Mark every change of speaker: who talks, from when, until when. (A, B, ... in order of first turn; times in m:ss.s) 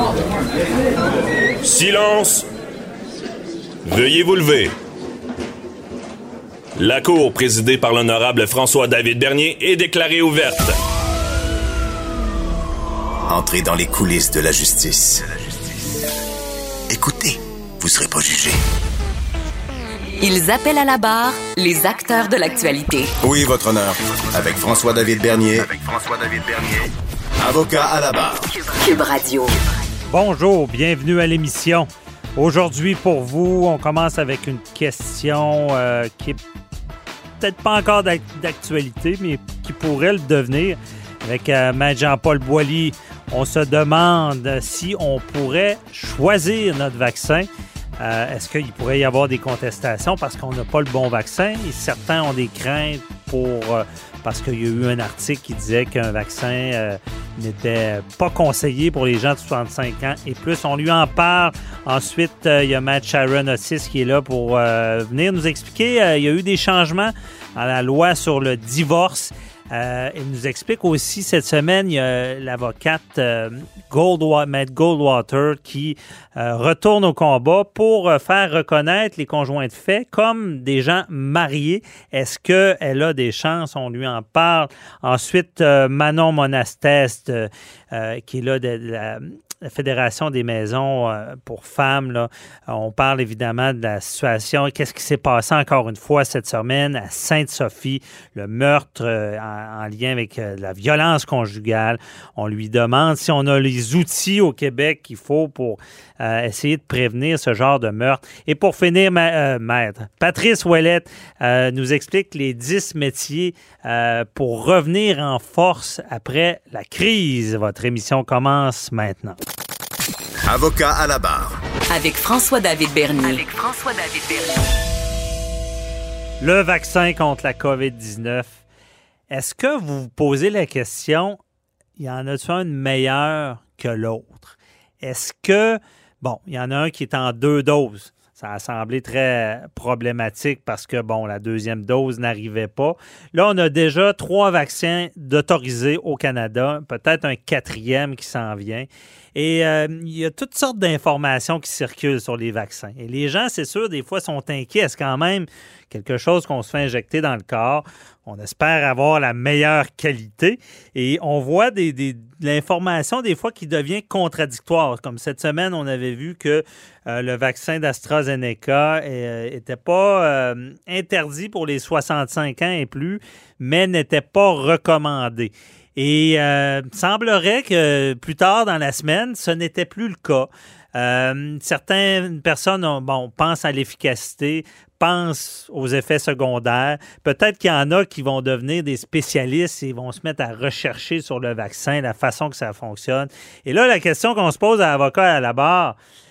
0:01.6-0:02.4 A
0:03.8-0:04.7 A
0:06.8-0:10.8 A
0:13.3-0:16.0 B
0:16.9-0:18.6 B
0:20.2-0:23.1 C
0:23.2-0:28.4 B
0:28.7-0:29.6 C
0:30.1-0:36.4 D
0:37.4-1:59.4 D
2:00.5-2:01.6 B
2:01.9-2:04.7 C
2:06.4-2:08.6 D
2:09.3-2:11.4 D
2:12.0-3:16.0 D